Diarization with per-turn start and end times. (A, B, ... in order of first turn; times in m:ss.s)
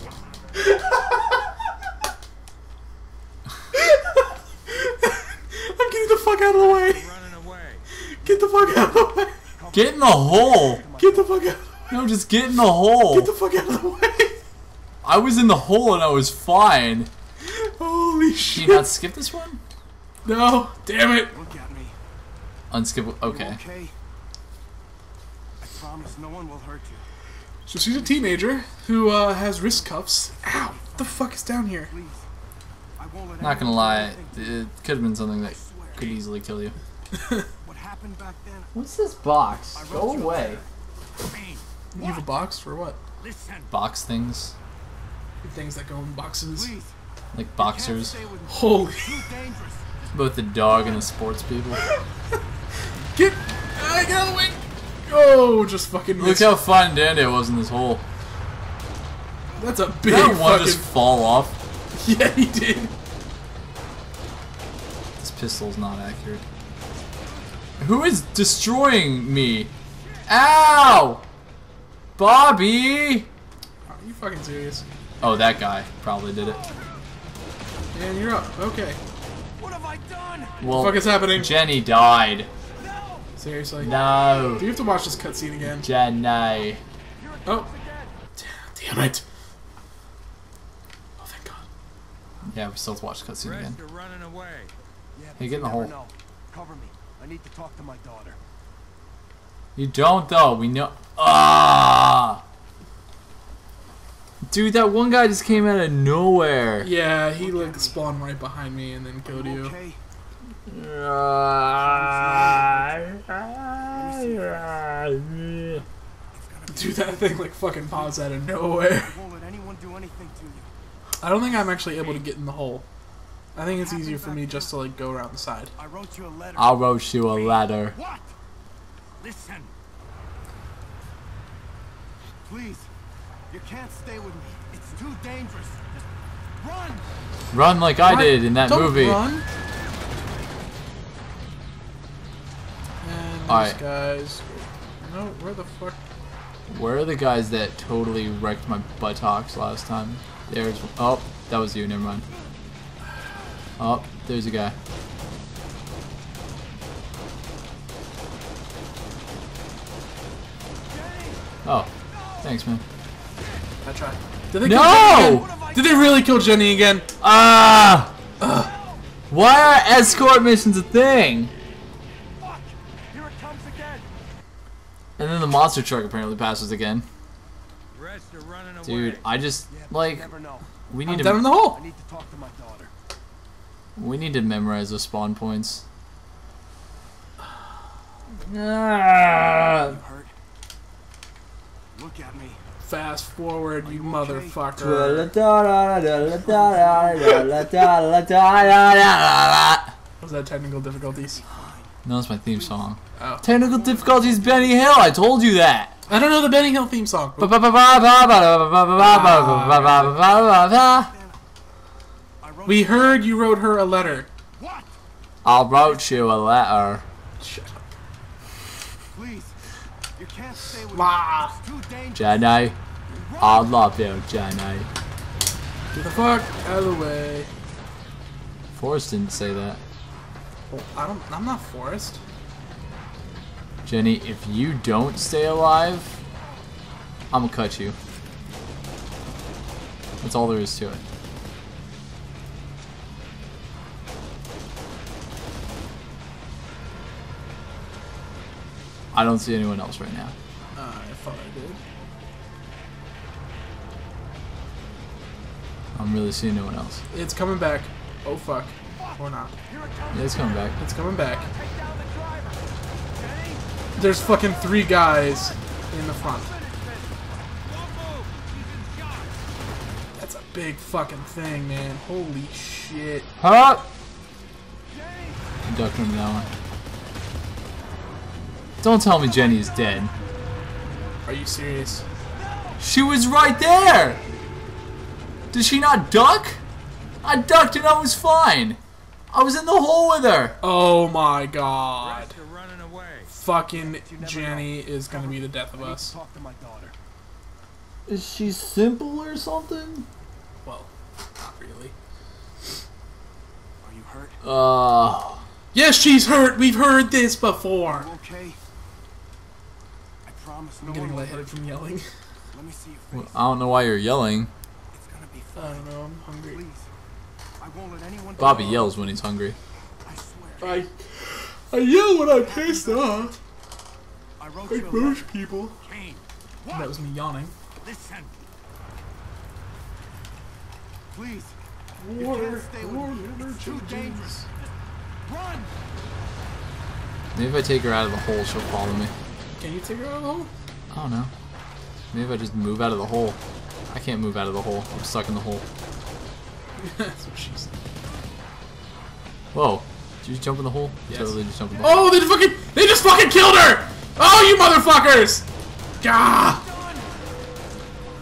0:00.6-0:01.0 A
0:03.7-0:07.1 A
0:06.5-0:07.9 B
0:08.1-0:09.4 A
0:08.2-0:09.0 C
0:09.6-0:12.0 C
0:09.7-0:10.8 D
0:11.0-0:11.8 A
0:11.9-0:13.3 D
0:13.1-0:14.4 A
0:15.0-0:17.1 D
0:17.4-0:18.9 A
0:18.5-0:19.6 D
0:20.2-0:21.4 A
0:21.1-0:22.0 C
0:22.7-0:23.6 D
0:23.2-0:23.9 C
0:25.6-0:27.0 C
0:27.7-0:31.9 A
0:28.0-0:28.4 C
0:29.5-0:32.3 C
0:33.0-0:34.7 C
0:33.4-0:36.8 D
0:35.4-0:36.2 C
0:37.1-0:37.5 A
0:37.6-0:38.7 C
0:38.7-0:40.6 D
0:39.7-0:40.7 C
0:41.2-0:41.7 B
0:41.9-0:43.0 A
0:43.2-0:43.7 B
0:43.7-0:44.5 D
0:45.4-0:46.8 A
0:46.5-0:46.9 C
0:47.3-0:48.2 D
0:47.6-0:49.8 C
0:48.5-0:49.3 A
0:50.1-0:51.9 D
0:53.2-0:56.6 A
0:56.2-0:58.0 D
0:59.6-1:00.9 A
1:00.0-1:01.6 D
1:01.9-1:02.9 A
1:05.2-1:06.4 D
1:07.8-1:09.7 D
1:10.0-1:10.2 B
1:10.3-1:11.2 D
1:12.2-1:13.3 D
1:13.9-1:14.8 A
1:15.2-1:16.6 D
1:17.9-1:19.0 A
1:19.6-1:20.6 C
1:20.6-1:22.5 D
1:20.6-1:21.6 A
1:22.8-1:23.3 C
1:23.4-1:24.0 A
1:23.8-1:24.7 D
1:24.6-1:25.9 A
1:25.6-1:26.8 D
1:27.2-1:28.2 C
1:28.4-1:29.2 A
1:31.2-1:31.7 A
1:32.5-1:33.8 D
1:33.4-1:34.7 B
1:35.1-1:38.4 C
1:35.4-1:35.9 D
1:39.8-1:42.4 D
1:44.4-1:46.9 D
1:46.8-1:49.8 A
1:47.1-1:48.0 C
1:49.2-1:50.0 C
1:50.7-1:55.8 D
1:51.8-1:53.2 C
1:53.9-1:54.8 C
1:56.3-2:00.7 C
1:56.7-1:59.2 A
2:01.2-2:02.8 A
2:03.6-2:05.8 A
2:03.6-2:04.8 C
2:05.8-2:07.2 C
2:06.6-2:07.9 D
2:07.9-2:08.3 B
2:09.2-2:09.7 B
2:12.4-2:12.9 C
2:13.5-2:16.1 C
2:16.6-2:17.0 C
2:17.5-2:19.2 D
2:18.0-2:19.4 A
2:23.0-2:26.0 A
2:23.5-2:23.8 D
2:26.7-2:32.3 D
2:33.8-2:34.8 D
2:40.9-2:41.4 C
2:41.6-2:41.9 D
2:42.4-2:42.8 D
2:43.8-2:47.1 A
2:44.6-2:45.5 D
2:44.8-2:46.6 C
2:47.2-2:48.2 D
2:48.4-2:48.7 A
2:48.6-2:49.0 C
2:49.3-2:51.5 D
2:52.4-2:54.1 C
2:55.2-2:57.1 D
2:57.9-2:59.3 B
2:58.8-3:00.3 D
2:59.7-3:00.7 C
3:00.9-3:01.5 D
3:01.0-3:01.9 A
3:01.6-3:02.9 C
3:04.0-3:05.8 D
3:08.4-3:10.0 D
3:09.7-3:10.3 C
3:11.9-3:12.6 C
3:12.8-3:15.3 A
3:13.8-3:14.6 C
3:14.8-3:20.0 D
3:17.2-3:17.7 A
3:20.2-3:21.4 A
3:21.1-3:21.9 C
3:22.0-3:25.9 D
3:22.5-3:22.8 C
3:23.2-3:23.4 A
3:23.4-3:25.2 C
3:26.1-3:27.5 A
3:27.4-3:31.1 D
3:29.0-3:30.1 A
3:30.1-3:31.4 C
3:32.4-3:33.5 C
3:32.7-3:34.3 A
3:34.6-3:34.8 B
3:35.4-3:37.0 D
3:37.4-3:37.9 A
3:39.1-3:39.6 C
3:40.2-3:42.4 C
3:40.9-3:41.6 A
3:42.2-3:42.8 D
3:43.1-3:43.7 C
3:43.4-3:44.9 D
3:45.9-3:47.5 A
3:48.7-3:49.8 D
3:50.7-3:52.2 A
3:53.8-3:56.2 D
3:57.3-3:58.0 D
4:00.2-4:01.0 D
4:09.1-4:10.3 D
4:10.8-4:11.8 A
4:15.9-4:17.0 D
4:17.1-4:19.6 A
4:19.7-4:25.3 C
4:20.1-4:20.8 D
4:20.8-4:21.5 A
4:24.0-4:26.6 A
4:26.2-4:27.5 C
4:27.6-4:29.4 B
4:30.2-4:33.3 A
4:33.4-4:33.9 D
4:34.9-4:35.5 C
4:35.6-4:36.5 D
4:38.8-4:40.1 D
4:39.0-4:40.1 C
4:41.2-4:42.0 A
4:42.4-4:42.8 C
4:42.8-4:44.2 D
4:45.5-4:46.6 D
4:47.2-4:48.8 D
4:49.3-4:50.6 D
4:50.6-4:52.4 A
4:52.0-4:53.3 B
4:53.3-4:56.2 A
4:53.7-4:56.9 C
4:58.1-5:00.1 D
5:00.6-5:01.9 A
5:03.8-5:04.4 C
5:04.4-5:05.4 D
5:05.7-5:08.1 A
5:07.8-5:08.6 C
5:10.3-5:11.6 C
5:10.8-5:12.1 A
5:12.5-5:13.5 C
5:13.1-5:14.5 D
5:14.9-5:16.9 C
5:15.6-5:16.6 A
5:17.6-5:19.0 C
5:18.4-5:19.6 D
5:18.4-5:18.9 A
5:20.0-5:20.9 C
5:20.6-5:23.4 A
5:22.3-5:23.4 C
5:24.4-5:25.3 C
5:24.7-5:25.8 A
5:25.8-5:26.2 B
5:26.7-5:27.5 A
5:27.8-5:28.3 B
5:31.1-5:31.6 C
5:32.0-5:34.4 A
5:32.2-5:34.5 C
5:35.3-5:35.7 C
5:37.3-5:39.1 D
5:39.6-5:40.5 A
5:40.9-5:41.3 D
5:42.1-5:45.6 D
5:46.8-5:47.7 A
5:49.5-5:52.1 D
5:51.1-5:55.4 A
5:56.0-5:56.7 A
5:56.4-5:57.1 C